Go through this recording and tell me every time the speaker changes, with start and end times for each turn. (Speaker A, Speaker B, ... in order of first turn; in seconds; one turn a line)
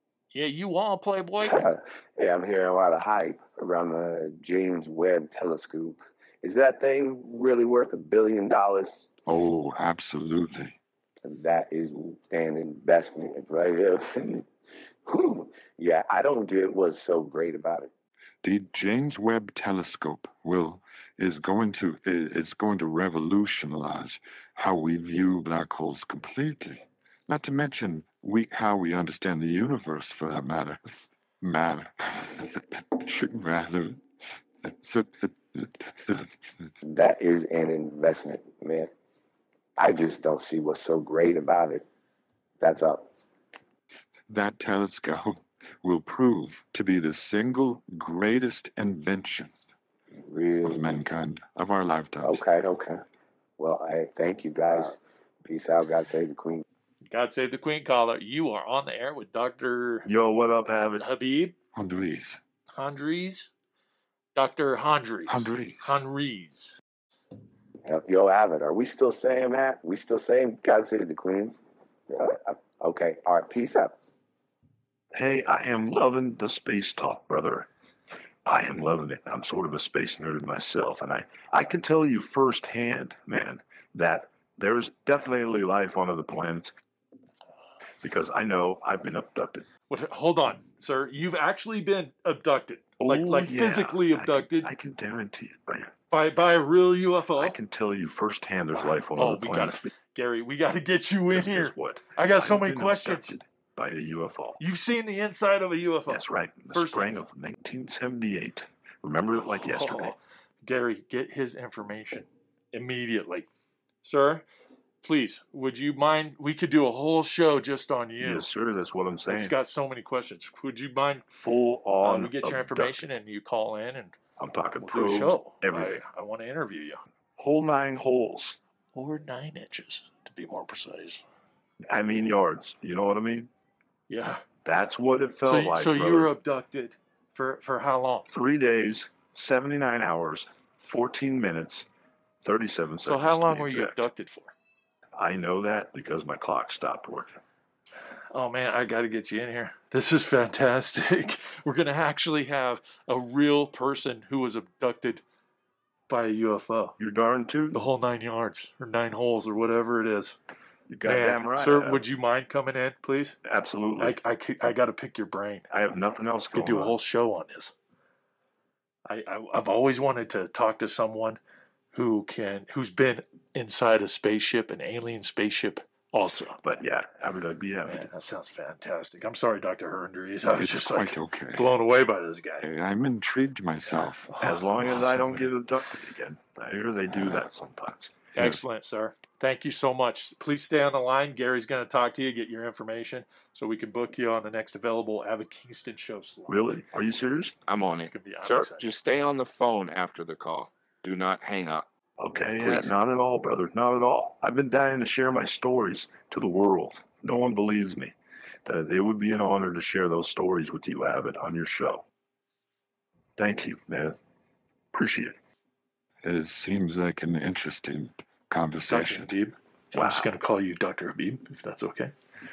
Speaker A: 0.3-1.6
Speaker B: 1.4-9.1
Speaker C: 9.2-10.8
Speaker B: 11.2-14.4
Speaker B: 15.1-17.9
Speaker C: 18.4-34.0
Speaker C: 34.6-36.7
Speaker B: 36.8-38.9
Speaker B: 39.8-41.8
Speaker B: 42.6-43.1
Speaker C: 44.3-49.5
Speaker B: 50.2-51.0
Speaker C: 50.6-52.4
Speaker B: 52.2-53.0
Speaker B: 53.6-56.6
Speaker A: 57.1-60.1
Speaker D: 60.0-61.0
Speaker A: 61.0-61.5
Speaker C: 61.7-62.4
Speaker A: 62.7-63.5
Speaker A: 64.3-66.8
Speaker C: 65.3-66.0
Speaker B: 67.8-71.6
Speaker B: 72.1-73.9
Speaker D: 75.1-77.7
Speaker D: 78.5-86.7
Speaker D: 88.0-89.7
Speaker A: 89.9-94.7
Speaker D: 93.0-95.9
Speaker A: 96.1-97.6
Speaker D: 97.4-99.9
Speaker A: 98.7-103.4
Speaker D: 101.3-104.6
Speaker A: 104.6-106.2
Speaker D: 106.1-110.2
Speaker A: 106.7-107.2
Speaker A: 109.4-113.5
Speaker A: 114.0-114.4
Speaker A: 115.0-118.5
Speaker D: 118.2-119.5
Speaker A: 119.3-121.2
Speaker D: 121.3-123.0
Speaker A: 122.0-124.2
Speaker D: 124.4-126.0
Speaker A: 124.8-127.0
Speaker D: 127.4-128.6
Speaker A: 128.9-131.2
Speaker D: 131.9-133.5
Speaker A: 134.1-134.4
Speaker D: 134.6-136.3
Speaker A: 135.4-138.3
Speaker D: 138.3-141.9
Speaker D: 142.4-144.1
Speaker A: 143.0-144.5
Speaker D: 145.2-147.3
Speaker A: 148.3-155.2
Speaker A: 156.1-156.9
Speaker D: 157.0-157.8
Speaker A: 157.7-160.3
Speaker D: 160.9-162.0
Speaker A: 161.0-163.4
Speaker D: 163.4-164.2
Speaker A: 164.0-165.7
Speaker D: 165.7-167.0
Speaker A: 166.5-167.7
Speaker A: 169.1-171.4
Speaker A: 171.9-176.6
Speaker D: 176.6-178.1
Speaker A: 177.8-182.7
Speaker C: 180.4-181.7
Speaker C: 182.6-184.3
Speaker A: 184.0-185.5
Speaker D: 184.4-188.1
Speaker A: 188.3-196.7
Speaker C: 188.3-188.6
Speaker D: 196.5-197.6
Speaker E: 197.7-201.9
Speaker A: 198.0-198.9
Speaker D: 202.2-208.1
Speaker E: 202.6-202.9
Speaker D: 208.7-212.0
Speaker D: 213.4-214.2
Speaker D: 214.9-215.3
Speaker C: 216.2-219.3
Speaker A: 218.9-222.1
Speaker D: 219.9-220.3